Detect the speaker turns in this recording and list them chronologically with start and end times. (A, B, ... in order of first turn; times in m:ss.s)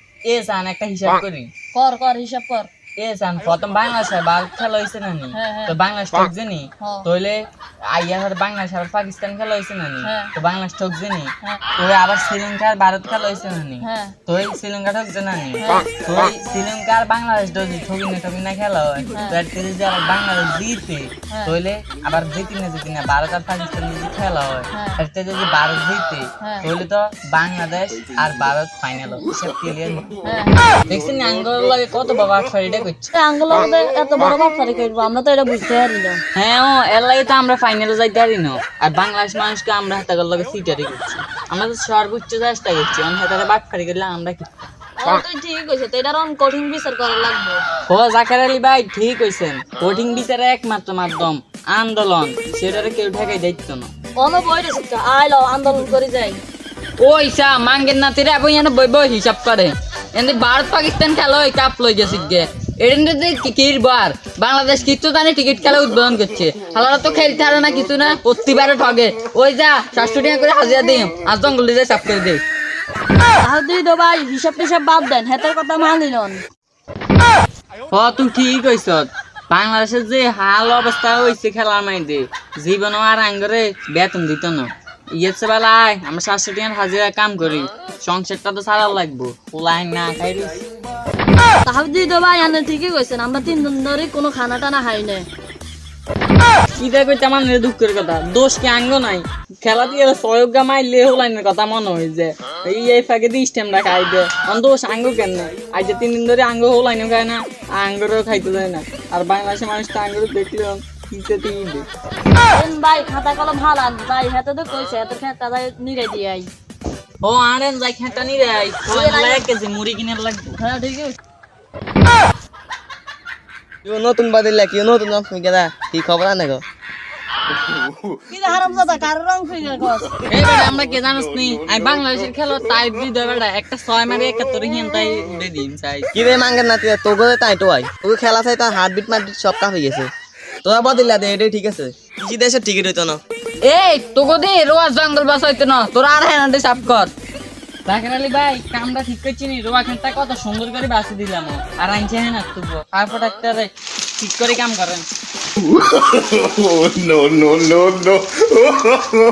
0:00.2-0:01.5 A
0:01.7-0:02.7 B
0:03.0-0:30.1 A
0:05.4-0:05.8 B
0:10.0-0:10.3 B
0:13.8-0:14.2 B
0:15.6-0:15.9 B
0:26.4-0:26.7 B
0:30.2-0:30.7 B
0:30.9-0:33.1 A
0:33.1-0:36.2 B
0:36.3-0:44.5 A
0:45.0-0:47.6 B
0:47.9-0:53.9 A
0:54.2-0:56.4 B
0:57.0-1:12.4 A
1:13.4-1:16.4 B
1:17.9-1:30.6 A
1:31.6-1:35.3 B
1:36.8-1:51.8 A
1:52.5-1:56.5 B
1:57.2-2:00.6 A
1:58.9-1:59.4 B
2:00.6-2:01.2 B
2:03.8-2:06.6 C
2:08.3-2:10.2 B
2:10.2-2:16.1 A
2:16.1-2:20.1 C
2:20.6-2:23.2 C
2:23.6-2:27.1 A
2:27.8-2:35.0 A
2:35.8-2:38.9 D